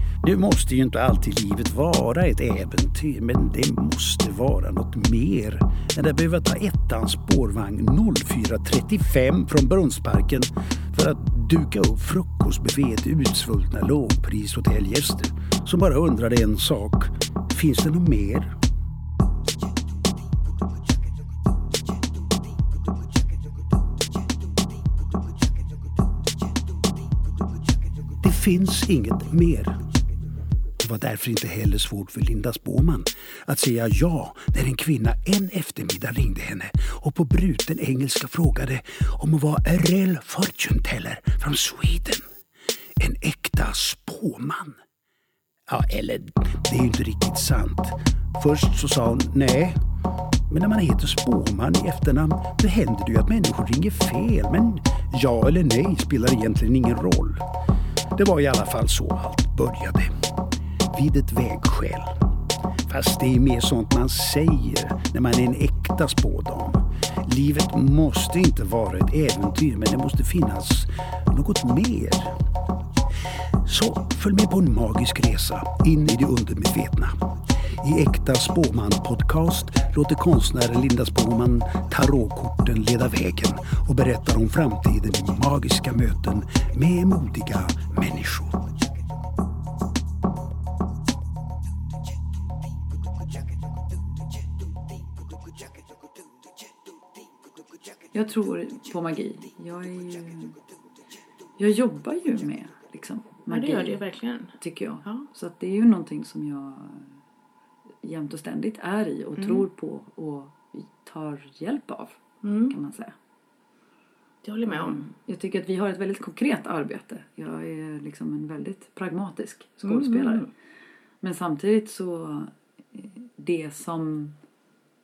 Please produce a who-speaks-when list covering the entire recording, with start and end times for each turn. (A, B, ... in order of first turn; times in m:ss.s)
0:00.2-0:18.5 A
0:28.2-0:29.8 A
0:30.8-0:42.2 A
0:43.0-0:44.8 A
0:45.7-0:49.8 A
0:50.5-0:57.4 A
0:58.2-1:00.1 A
1:00.9-1:02.1 A
1:02.9-1:12.3 A
1:13.6-1:17.2 A
1:17.8-1:28.6 A
1:38.1-1:40.6 B
1:41.6-1:44.0 B
1:43.5-1:45.3 C
1:44.6-1:47.1 B
1:48.0-1:52.2 B
1:49.4-1:49.6 C
1:52.4-1:52.7 C
1:52.7-1:53.1 B
1:54.4-1:55.1 C
1:54.7-2:00.5 B
1:59.8-2:00.5 C
2:01.2-2:04.4 B